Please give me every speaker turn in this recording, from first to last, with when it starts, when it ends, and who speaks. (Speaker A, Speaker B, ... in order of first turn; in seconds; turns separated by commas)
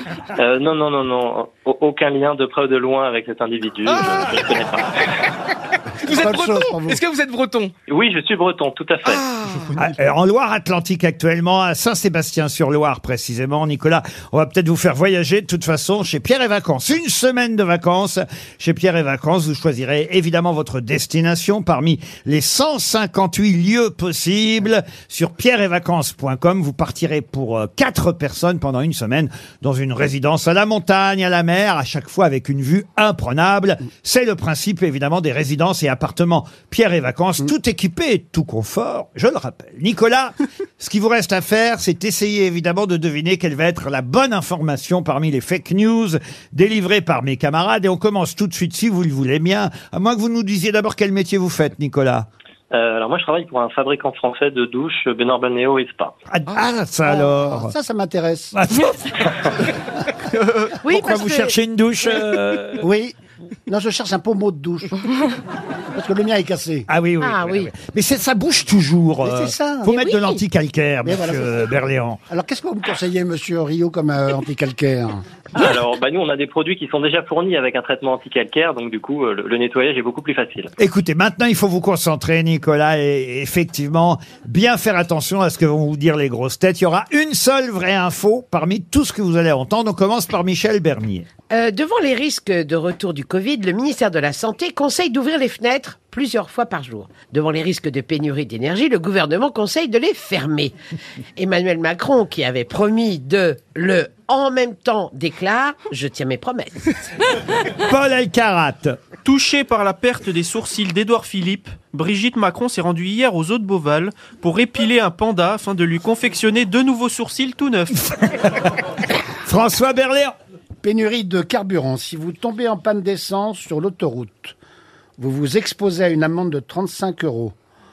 Speaker A: 0.4-5.0, Speaker B: 3.9-4.3, Speaker B: 6.0-7.7, Speaker C: 6.1-7.0, Speaker A: 7.9-9.2, Speaker B: 9.1-9.7, Speaker D: 9.5-10.0, Speaker E: 9.8-52.3, Speaker A: 52.7-56.1, Speaker E: 56.3-57.7, Speaker C: 57.0-58.5, Speaker E: 58.5-59.6, Speaker F: 60.8-61.5, Speaker E: 60.8-62.9, Speaker C: 62.8-63.1, Speaker C: 63.7-65.2, Speaker C: 66.0-66.9, Speaker E: 66.9-72.2, Speaker F: 67.2-67.7, Speaker C: 69.2-70.0, Speaker F: 69.9-70.4, Speaker C: 71.0-71.6, Speaker C: 72.3-75.2, Speaker A: 75.5-80.7, Speaker E: 80.8-91.3, Speaker F: 91.5-100.8, Speaker F: 101.4-106.9, Speaker E: 107.7-109.0, Speaker D: 109.2-118.0, Speaker E: 118.1-118.8, Speaker E: 119.5-120.3, Speaker C: 120.8-124.5, Speaker C: 125.2-127.5